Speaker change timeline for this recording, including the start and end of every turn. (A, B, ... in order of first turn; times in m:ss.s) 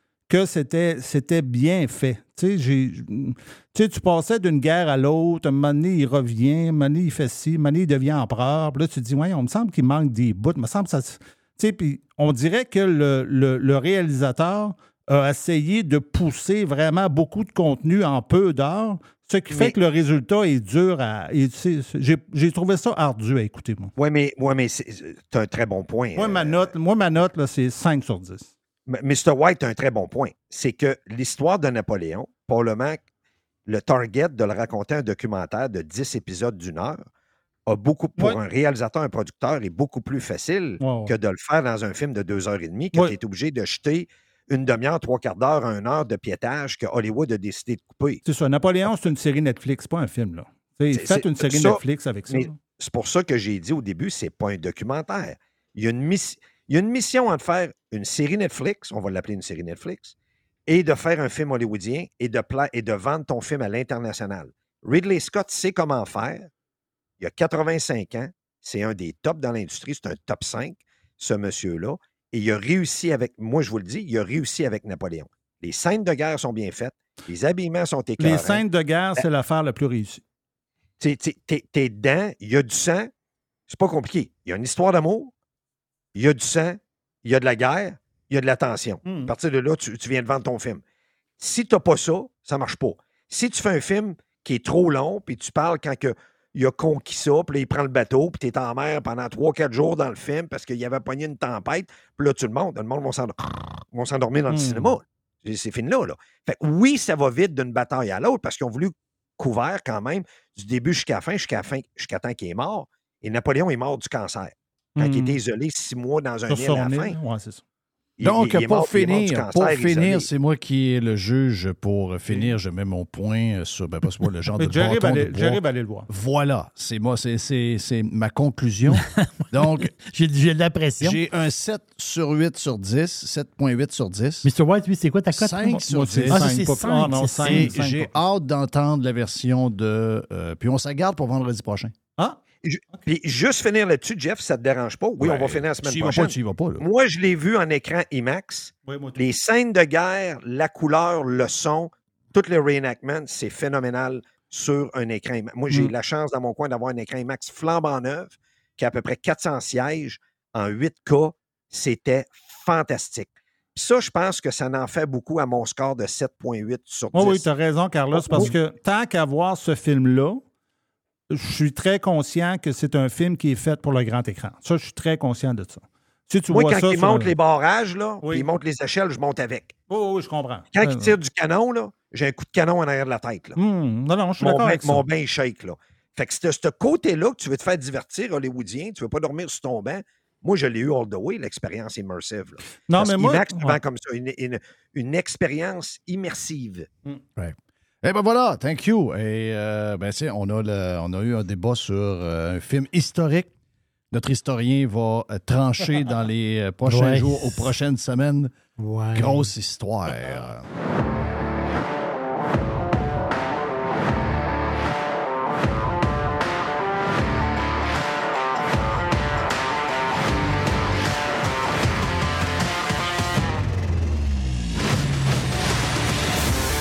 0:00.3-0:23.9 A
0:19.5-0:19.8 B
0:24.0-0:26.7 B
0:26.2-0:28.5 A
0:28.9-0:33.0 B
0:33.7-0:37.0 B
0:37.7-0:48.2 B
0:40.8-0:41.1 A
0:48.2-0:52.6 A
0:50.9-1:00.1 B
1:00.7-1:06.5 B
1:07.2-1:18.6 B
1:18.2-1:20.2 A
1:21.0-1:23.1 B
1:23.7-1:25.3 B
1:26.1-1:30.8 B
1:29.0-1:29.3 A
1:31.4-1:57.2 B
1:44.5-1:45.0 A
1:55.0-1:55.4 A
1:56.5-1:57.6 A
1:58.2-2:00.3 B
1:58.2-2:09.9 C
2:04.6-2:06.1 A
2:10.0-2:11.2 D
2:11.0-2:14.5 C
2:14.4-2:17.7 D
2:15.3-2:16.6 C
2:15.7-2:18.1 A
2:17.4-2:21.9 C
2:22.6-2:47.5 B
2:25.2-2:26.8 C
2:28.9-2:29.2 A
2:47.1-2:50.4 A
2:48.1-2:48.6 B
2:51.3-2:57.4 A
2:56.5-2:59.7 B
2:58.2-2:58.5 A
2:59.9-3:01.2 A
3:00.7-3:03.6 B
3:03.6-3:05.1 A
3:04.4-3:16.9 B
3:12.8-3:13.8 A
3:17.4-3:23.5 C
3:24.1-3:28.5 C
3:26.8-3:27.7 D
3:28.8-3:29.5 D
3:29.1-3:30.6 C